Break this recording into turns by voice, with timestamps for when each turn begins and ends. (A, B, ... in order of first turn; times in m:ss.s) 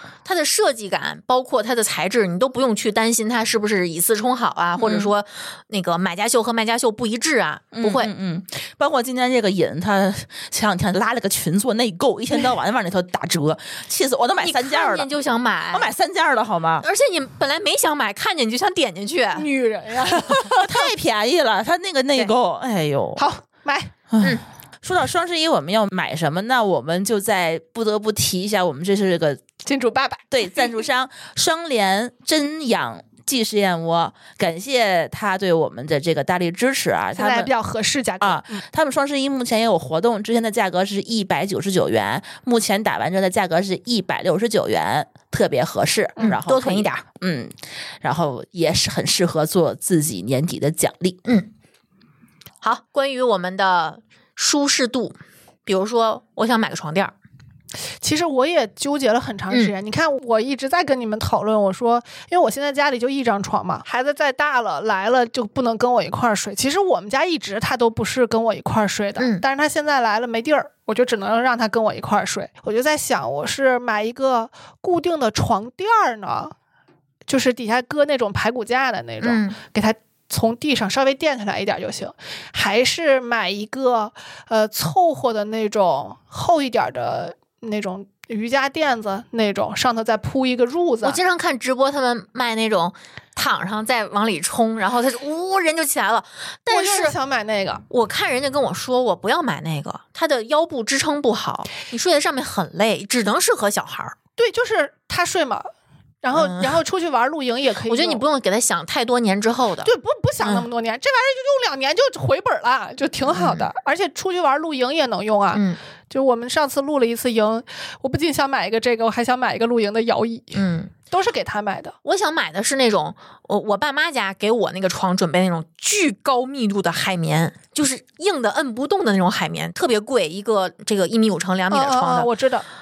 0:00.2-0:08.1 A
0:04.8-0:05.1 B
0:07.7-0:15.1 B
0:14.4-0:15.9 A
0:15.7-0:16.9 B
0:16.8-0:19.5 A
0:19.4-0:20.9 C
0:20.4-0:23.3 B
0:23.2-0:23.9 C
0:24.1-0:29.4 B
0:29.6-0:30.7 C
0:30.3-0:37.5 B
0:37.2-0:38.6 C
0:38.2-0:51.2 B
0:46.2-0:47.0 A
0:52.6-0:57.1 A
0:58.0-1:16.5 C
1:09.2-1:09.4 A
1:17.3-1:31.2 C
1:19.2-1:19.6 A
1:31.0-1:37.2 A
1:36.7-1:37.8 C
1:37.9-1:44.2 A
1:44.4-1:45.7 C
1:46.2-1:48.2 C
1:46.4-1:46.8 A
1:47.9-1:50.7 A
1:49.8-2:02.0 C
1:53.3-1:53.7 A
1:55.5-1:55.8 A
2:00.5-2:00.9 A
2:02.0-2:12.3 A
2:11.7-2:12.6 C